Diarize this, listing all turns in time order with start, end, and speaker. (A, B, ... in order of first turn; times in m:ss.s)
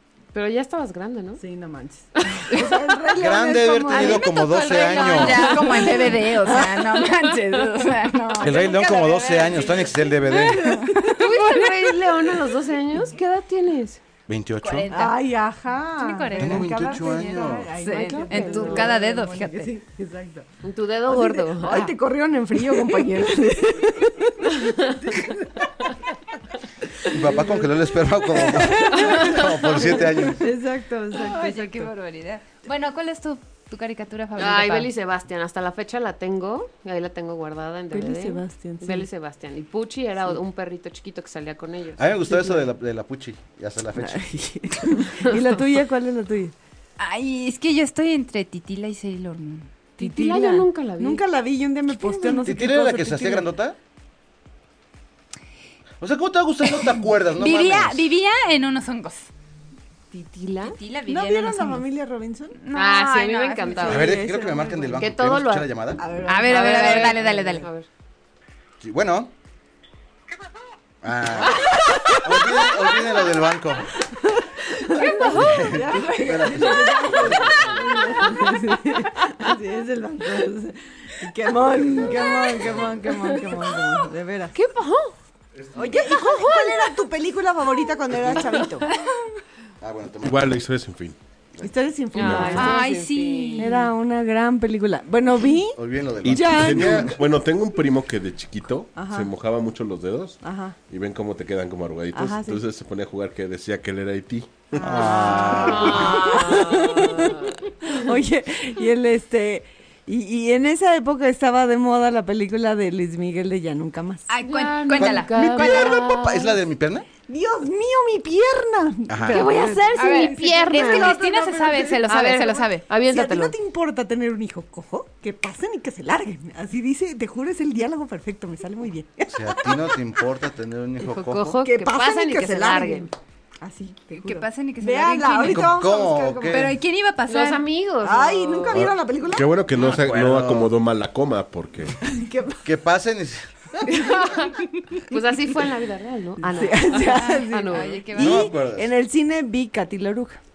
0:00.3-0:01.4 A
0:01.4-0:04.3 B
0:02.2-0:02.9 A
0:03.2-0:05.6 C
0:03.9-0:09.5 D
0:04.7-0:05.9 A
0:05.0-0:06.8 B
0:08.4-0:10.8 C
0:09.0-0:09.9 A
0:10.3-0:11.6 B
0:10.3-0:11.7 D
0:11.2-0:14.0 A
0:14.3-0:15.0 C
0:14.6-0:15.2 D
0:14.9-0:20.5 B
0:16.0-0:17.2 D
0:16.4-0:17.7 C
0:17.8-0:19.7 D
0:17.8-0:18.9 A
0:20.6-0:22.0 A
0:21.1-0:25.7 B
0:27.0-0:27.7 B
0:27.1-0:30.4 C
0:28.3-0:31.9 B
0:31.1-0:34.9 D
0:34.4-0:42.1 A
0:37.9-0:39.1 B
0:42.0-0:44.2 C
0:42.3-0:42.7 B
0:44.0-0:46.5 B
0:47.0-0:49.7 D
0:50.0-0:51.2 A
0:50.0-0:53.5 B
0:52.1-0:52.4 D
0:52.4-0:53.8 C
0:56.0-0:58.0 C
0:57.4-0:59.3 D
1:00.1-1:00.8 A
1:00.6-1:01.9 D
1:01.1-1:02.6 B
1:02.6-1:04.0 D
1:02.7-1:04.1 A
1:03.8-1:05.1 B
1:03.8-1:06.0 C
1:05.0-1:05.7 A
1:06.0-1:07.6 B
1:06.3-1:07.7 D
1:06.5-1:07.9 A
1:08.8-1:09.3 C
1:11.0-1:13.9 C
1:11.8-1:12.4 B
1:14.1-1:24.6 B
1:15.0-1:15.4 D
1:15.0-1:15.6 A
1:15.2-1:18.2 C
1:21.8-1:23.0 C
1:24.6-1:25.1 A
1:25.6-1:26.0 C
1:25.8-1:28.9 B
1:26.0-1:26.9 A
1:29.8-1:30.6 C
1:30.2-1:31.2 E
1:31.6-1:32.8 B
1:32.1-1:33.8 A
1:32.3-1:32.5 E
1:32.5-1:33.9 D
1:33.6-1:37.2 B
1:35.8-1:37.2 C
1:36.2-1:40.4 E
1:38.9-1:39.3 B
1:40.4-1:40.8 B
1:40.9-1:44.8 E
1:42.1-1:42.6 B
1:44.8-1:54.3 B
1:44.8-1:46.4 C
1:45.0-1:48.0 A
1:54.3-1:55.9 D
1:54.4-1:56.6 A
1:55.0-1:57.1 C
1:57.3-2:02.0 B
1:59.1-1:59.5 C
1:59.3-2:01.2 A
2:00.0-2:02.8 D
2:02.0-2:03.6 A
2:03.1-2:10.0 B
2:09.3-2:11.6 C
2:11.0-2:13.1 A
2:11.6-2:16.7 B
2:14.2-2:15.8 D
2:15.4-2:16.8 C
2:16.5-2:17.6 D
2:17.3-2:18.8 A
2:18.0-2:19.5 B
2:19.3-2:22.0 E
2:19.8-2:20.7 C
2:22.0-2:22.6 B
2:22.6-2:23.8 C
2:23.9-2:24.3 B
2:23.9-2:24.5 A
2:25.1-2:28.0 A
2:26.4-2:30.4 B
2:26.9-2:28.5 D
2:28.2-2:28.9 C